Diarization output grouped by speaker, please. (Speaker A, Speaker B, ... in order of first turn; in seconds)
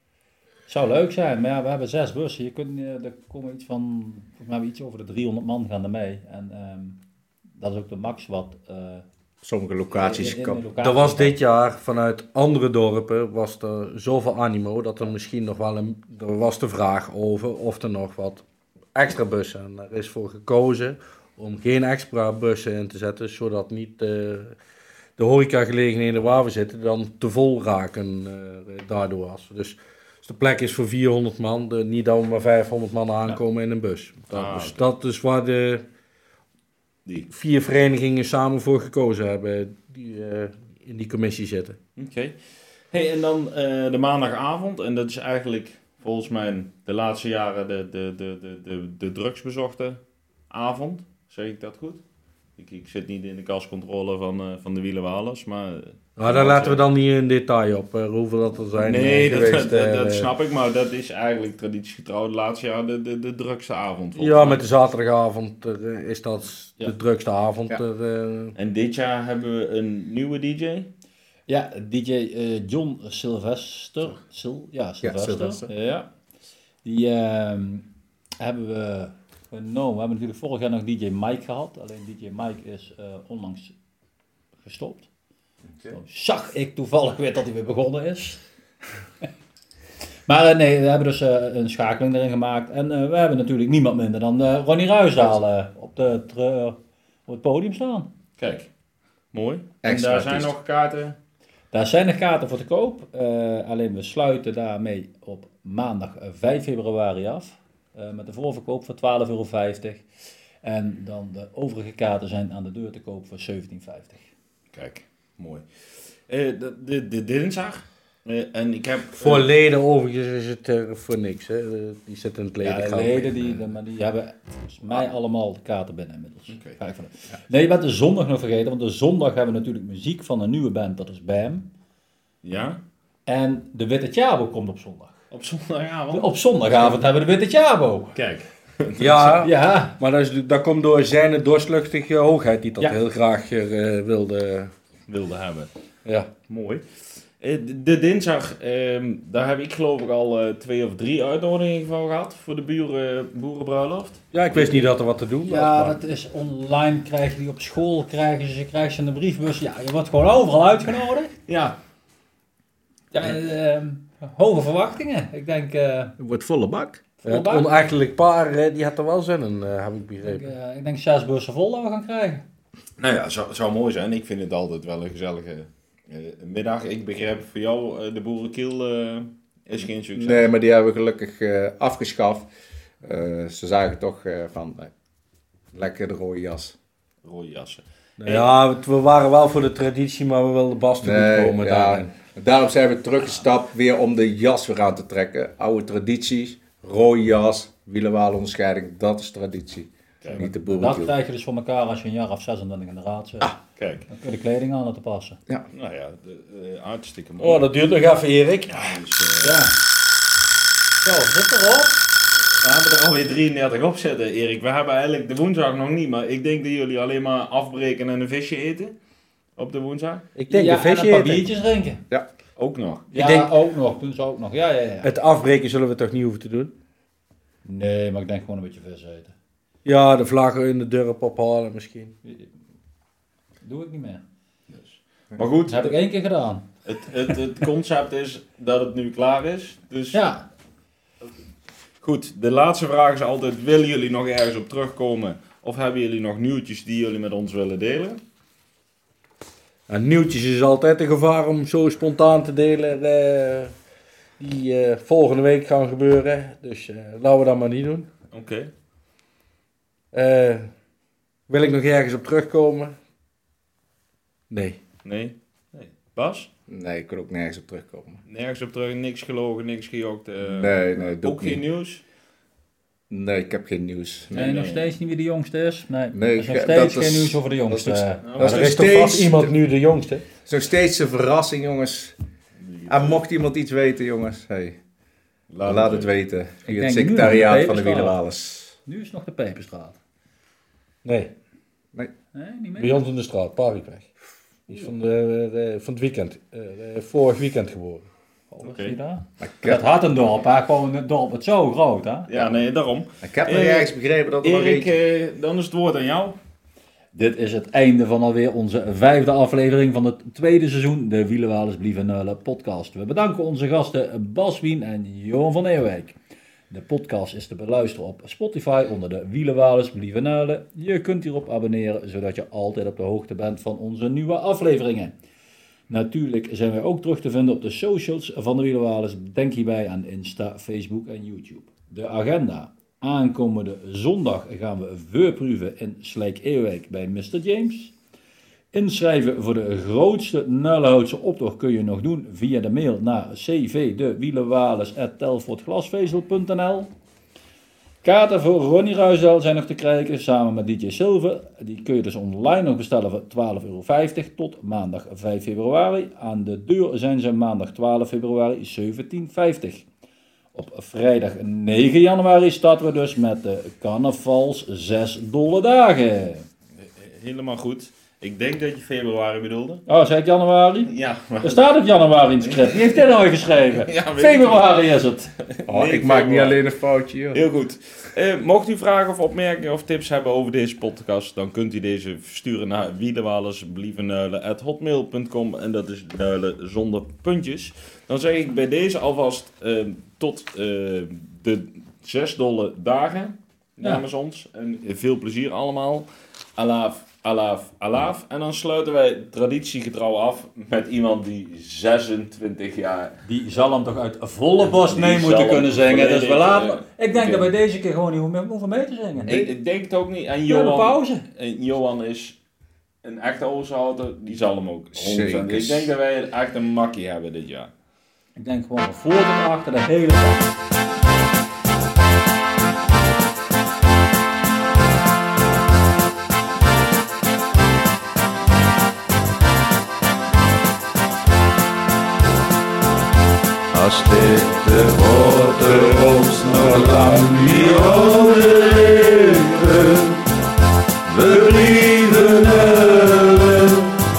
Speaker A: 0.7-7.0, 7.6-9.0, 9.9-11.3, 71.5-76.1, 76.8-77.9, 78.4-83.7, 84.6-85.1, 85.9-88.4, 90.3-98.1, 101.7-110.0, 110.6-114.2, 122.6-131.7, 133.3-135.2, 136.1-138.2, 139.0-140.0, 155.5-161.3, 163.1-166.2, 167.2-167.7, 170.2-172.4, 200.4-203.5, 204.1-205.4, 209.4-209.7, 211.0-212.0, 220.5-222.0, 223.1-225.1, 227.7-229.3, 232.2-232.5, 233.6-234.2, 235.7-236.7, 240.1-240.4, 274.3-278.2, 286.6-288.2, 288.9-290.0, 292.3-293.1, 298.5-302.3, 307.1-316.2, 316.7-325.1, 325.9-337.9, 338.7-346.9, 348.0-359.9, 360.5-366.5, 369.9-370.9, 371.4-375.3, 403.2-409.5, 410.5-411.2, 418.4-420.5
Speaker B: 9.4-10.6, 75.0-75.7, 99.8-100.5, 166.2-167.0, 180.2-182.5, 183.0-184.9, 185.7-186.8, 191.0-201.1, 266.7-268.2, 270.4-271.6, 273.1-274.4, 276.1-279.5, 280.5-282.1, 282.9-284.8, 285.6-288.8, 299.4-299.8, 303.2-304.9, 375.7-377.4, 414.9-415.9
Speaker C: 10.8-18.4, 18.9-24.6, 25.2-35.8, 37.3-41.8, 56.2-60.3, 64.2-68.5, 119.2-123.4, 139.0-144.7, 146.1-146.3, 154.3-156.0, 167.2-170.5, 188.2-192.1, 207.4-209.0, 220.3-221.4, 223.1-223.5, 225.0-226.7, 229.8-232.1, 249.9-253.7, 254.4-258.1, 260.1-260.7, 261.5-262.9, 264.5-264.8, 278.4-280.2, 291.1-291.3, 292.8-294.1, 294.7-298.1
Speaker D: 34.3-34.8, 42.0-42.4, 42.9-52.0, 52.6-56.9, 58.8-64.6, 68.6-70.9, 98.4-98.7, 99.3-101.2, 114.7-115.7, 116.3-119.5, 126.5-126.8, 132.4-132.8, 135.3-137.0, 138.2-139.0, 145.1-145.7, 146.5-146.8, 147.4-154.9, 161.5-161.8, 173.0-180.5, 187.2-188.5, 203.8-204.1, 205.7-207.7, 208.7-209.6, 212.4-218.9, 219.6-220.3, 222.6-223.1, 234.7-235.9, 236.9-240.2, 242.0-248.2, 258.3-258.7, 265.1-266.5, 268.3-272.0, 274.3-274.8, 278.2-278.8, 282.6-283.2, 285.5-286.1, 298.6-299.0, 302.3-303.9, 304.4-306.4, 366.8-369.9, 370.9-371.7, 372.4-372.8, 373.7-374.9, 375.5-376.6, 377.3-403.2, 404.6-407.5, 409.3-412.4, 413.0-417.7
Speaker E: 433.7-440.2, 441.1-443.9